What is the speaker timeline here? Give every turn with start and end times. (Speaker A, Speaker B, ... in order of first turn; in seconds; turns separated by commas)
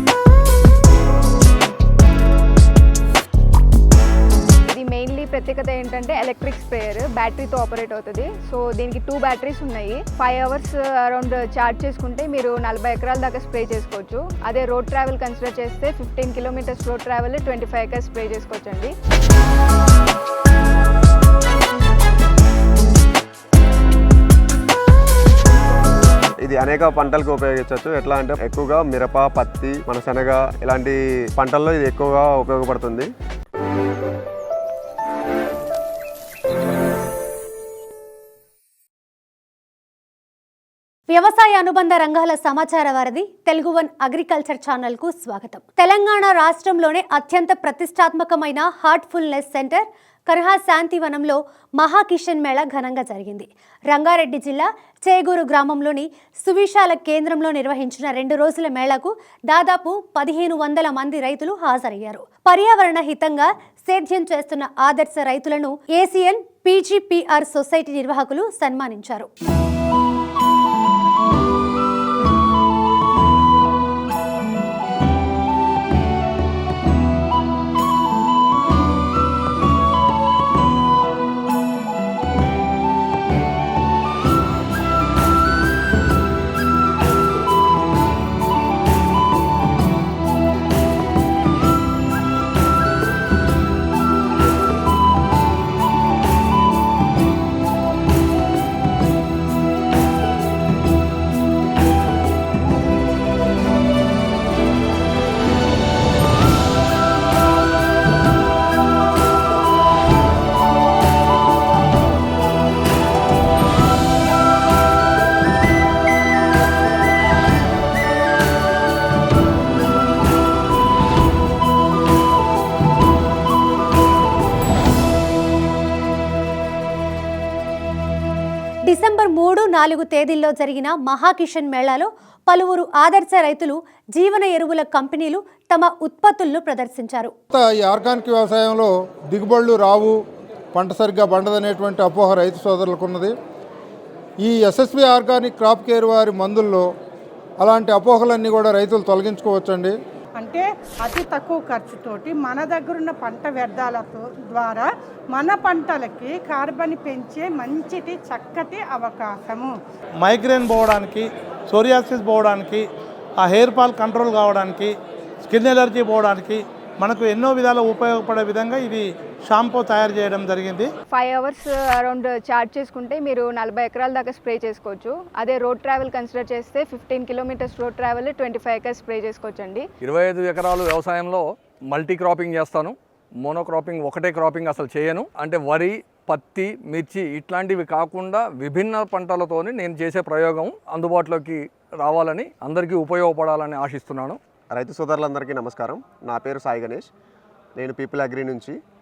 Speaker A: 4.7-18.9, Speaker B: 26.4-33.1, Speaker C: 41.1-69.3, Speaker C: 128.9-137.3, Speaker D: 137.5-140.2, Speaker D: 140.7-143.3, Speaker D: 144.4-146.9, Speaker D: 147.6-150.0, Speaker E: 150.4-159.8, Speaker F: 160.2-162.9, Speaker F: 163.4-164.9, Speaker F: 165.4-170.9, Speaker A: 171.1-179.8, Speaker G: 180.0-194.4, Speaker B: 194.7-197.1, Speaker B: 197.8-198.8